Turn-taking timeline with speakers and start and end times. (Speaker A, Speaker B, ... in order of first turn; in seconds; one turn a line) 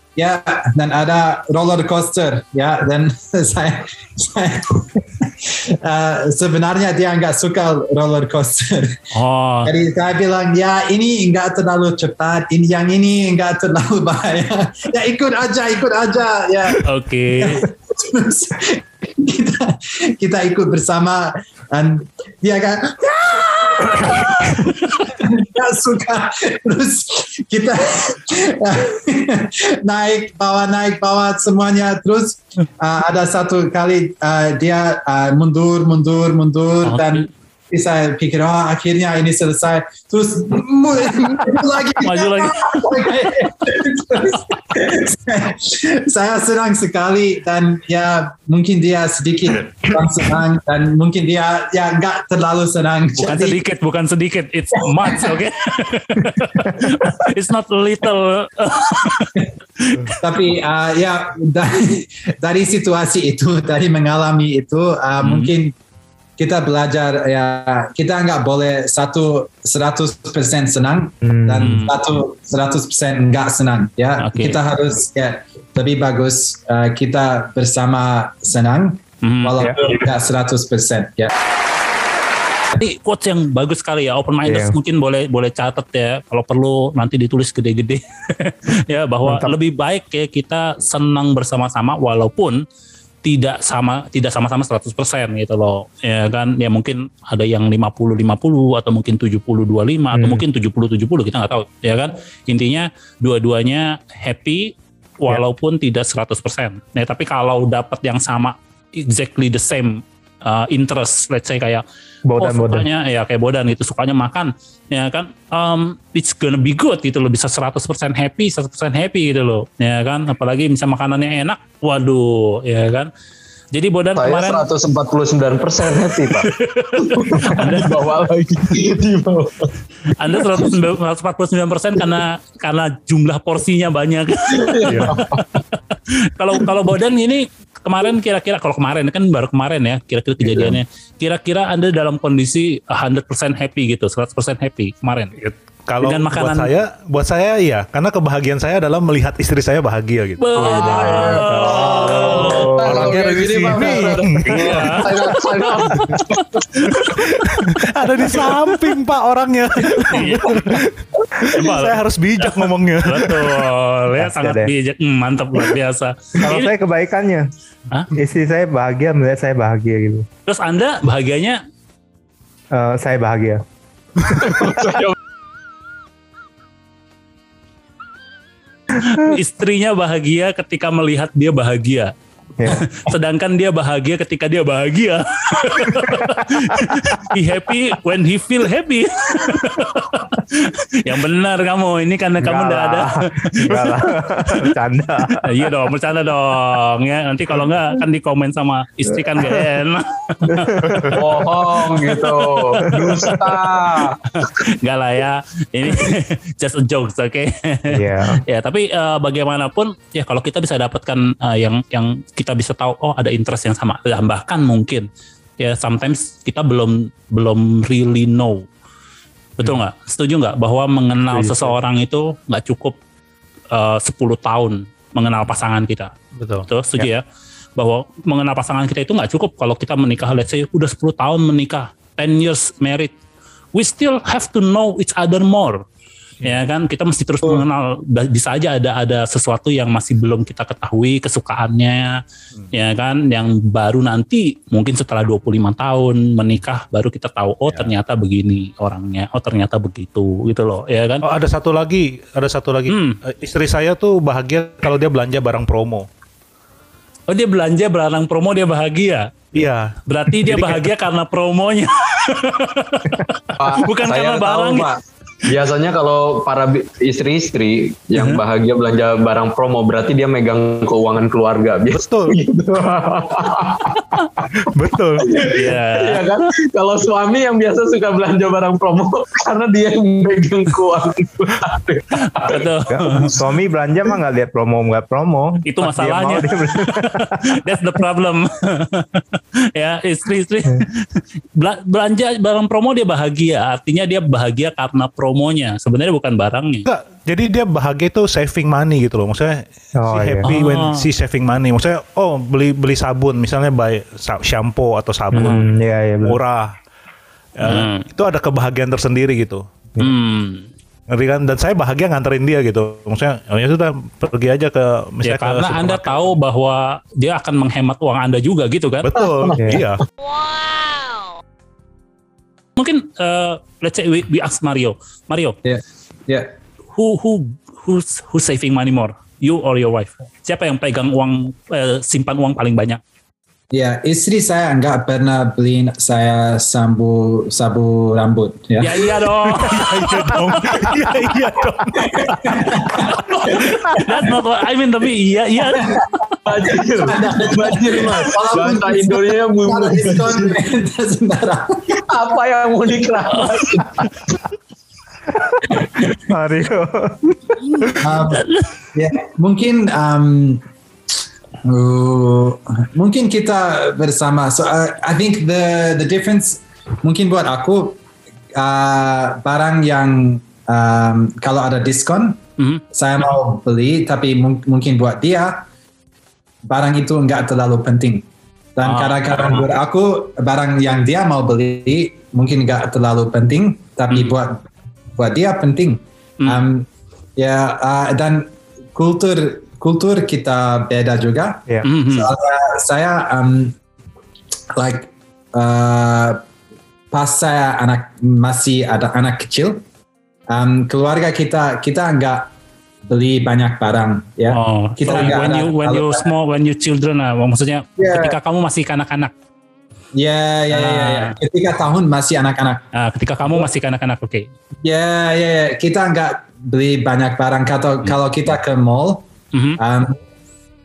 Speaker A: 0.2-9.0
Speaker B: 9.1-9.7
Speaker A: 9.7-53.6
Speaker B: 16.8-17.6
Speaker B: 36.9-37.2
Speaker B: 42.0-43.1
Speaker B: 53.2-60.1
Speaker A: 60.2-65.7
Speaker B: 65.2-65.5
Speaker A: 66.4-81.3
Speaker C: 71.2-71.8
Speaker B: 71.6-71.9
Speaker B: 74.2-74.6
Speaker B: 79.2-79.7
Speaker B: 82.8-92.6
Speaker C: 84.4-84.8
Speaker C: 89.2-89.6
Speaker B: 93.2-111.8
Speaker C: 100.1-100.4
Speaker C: 112.3-112.9
Speaker B: 112.4-123.1
Speaker B: 123.7-124.6
Speaker D: 124.2-129.8
Speaker B: 126.0-128.0
Speaker B: 130.2-135.2
Speaker D: 130.3-130.8
Speaker D: 134.5-135.6
Speaker E: 134.9-135.2
Speaker B: 136.4-146.7
Speaker D: 140.5-140.8
Speaker E: 145.9-155.1
Speaker B: 150.4-152.9
Speaker D: 150.6-157.0
Speaker C: 150.8-153.1
Speaker B: 154.4-157.2
Speaker E: 157.2-160.9
Speaker B: 158.3-158.7
Speaker B: 159.9-160.6
Speaker E: 161.5-163.7
Speaker D: 161.6-161.9
Speaker B: 162.4-166.7
Speaker C: 164.2-164.7
Speaker C: 166.4-167.5
Speaker C: 168.2-170.3
Speaker B: 170.5-171.6
Speaker C: 172.7-173.6
Speaker C: 174.3-174.9
Speaker D: 174.3-175.2
Speaker B: 179.0-182.1
Speaker C: 182.6-182.9
Speaker B: 182.7-193.2
Speaker C: 192.4-195.7
Speaker B: 193.7-194.0
Speaker B: 195.4-200.7
Speaker C: 199.2-199.7
Speaker C: 200.4-201.2
Speaker D: 201.1-204.2
Speaker B: 202.3-203.5
Speaker C: 202.9-203.3
Speaker B: 204.3-215.1
Speaker C: 207.9-208.4
Speaker B: 215.6-218.6
Speaker B: 219.6-223.0
Speaker C: 221.3-221.8
Speaker B: 223.7-226.1
Speaker E: 226.4-226.6
Speaker B: 226.7-227.2
Speaker B: 227.8-233.1
Speaker B: 233.8-235.8
Speaker B: 236.4-242.2
Speaker B: 242.7-251.2
Speaker E: 251.2-256.1
Speaker B: 252.9-253.2
Speaker B: 257.3-264.9
Speaker E: 259.5-260.9
Speaker D: 263.6-264.9
Speaker D: 265.5-274.5
Speaker E: 271.9-272.4
Speaker E: 274.7-275.3
Speaker D: 275.2-282.7
Speaker B: 275.5-276.4
Speaker B: 282.4-283.3
Speaker C: 282.9-287.4
Speaker B: 285.7-289.2
Speaker B: 289.8-296.9
Speaker E: 296.9-305.7
Speaker C: 300.0-300.5
Speaker B: 300.4-301.0
Speaker C: 305.3-306.4
Speaker B: 305.3-305.6
Speaker E: 306.2-306.7
Speaker E: 307.6-309.6
Speaker B: 307.6-308.1
Speaker B: 310.0-310.6
Speaker E: 311.1-316.4
Speaker B: 315.2-319.1
Speaker E: 319.0-320.0
Speaker C: 319.6-319.9
Speaker B: 322.8-325.6
Speaker A: 325.6-326.5
Speaker B: 326.9-333.0
Speaker A: 333.7-338.9
Speaker B: 338.8-340.9
Speaker E: 339.6-342.6
Speaker D: 342.0-342.4
Speaker A: 342.5-343.4
Speaker D: 343.4-343.7
Speaker B: 343.6-345.9
Speaker D: 346.4-350.6
Speaker A: 347.0-351.7
Speaker D: 352.1-354.1
Speaker B: 353.3-353.8
Speaker C: 355.4-357.9
Speaker B: 357.7-358.7
Speaker A: 358.0-358.4
Speaker A: 358.9-360.6
Speaker A: 361.6-368.0
Speaker A: 368.6-372.4
Speaker A: 372.9-375.6
Speaker A: 376.7-378.2
Speaker A: 378.8-384.6
Speaker B: 378.8-379.7
Speaker A: 385.2-393.8
Speaker B: 391.8-392.3
Speaker A: 394.8-396.4
Speaker A: 397.1-399.8
Speaker A: 400.5-402.5
Speaker A: 403.1-406.3
Speaker B: 404.5-409.3
Speaker A: 408.0-408.4
Speaker A: 410.2-412.8
Speaker B: 410.7-411.4
Speaker B: 412.9-414.5
Speaker A: 414.8-419.2
Speaker B: 419.5-419.8
Speaker A: 419.8-420.1